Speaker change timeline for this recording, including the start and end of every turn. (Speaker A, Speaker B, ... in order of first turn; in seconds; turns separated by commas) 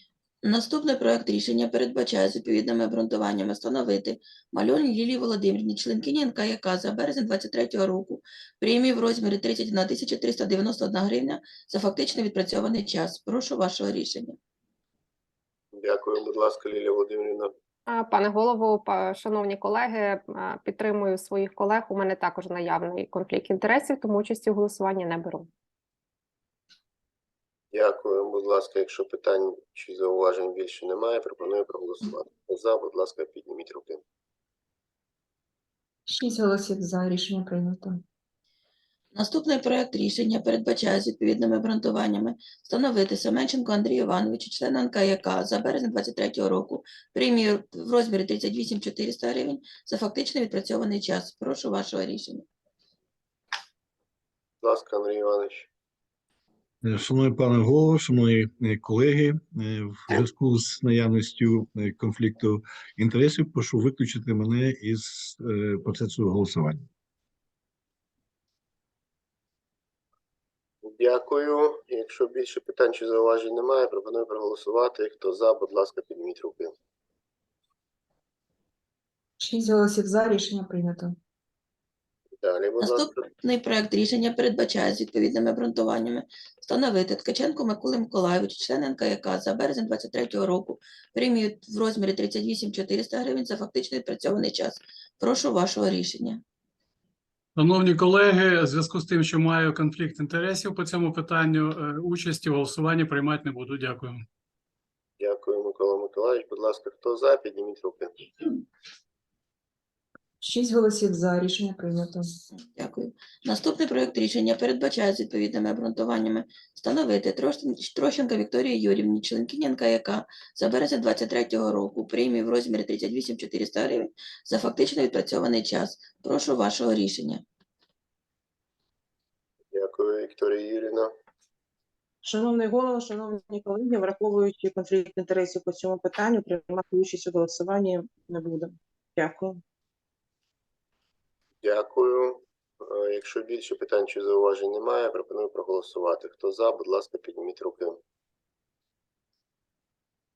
Speaker A: 0.4-14.4, Speaker B: 15.7-17.5, Speaker C: 17.9-25.5, Speaker B: 27.7-34.0, Speaker D: 36.1-38.0, Speaker A: 39.1-52.5, Speaker B: 54.6-55.6, Speaker E: 56.8-66.8, Speaker B: 70.8-76.7, Speaker D: 79.4-81.2, Speaker B: 82.4-83.2, Speaker A: 82.8-96.4, Speaker F: 97.6-104.2, Speaker B: 105.2-108.1, Speaker D: 110.4-112.3, Speaker A: 112.6-127.4, Speaker B: 129.7-131.1, Speaker G: 132.2-139.6, Speaker B: 141.6-147.9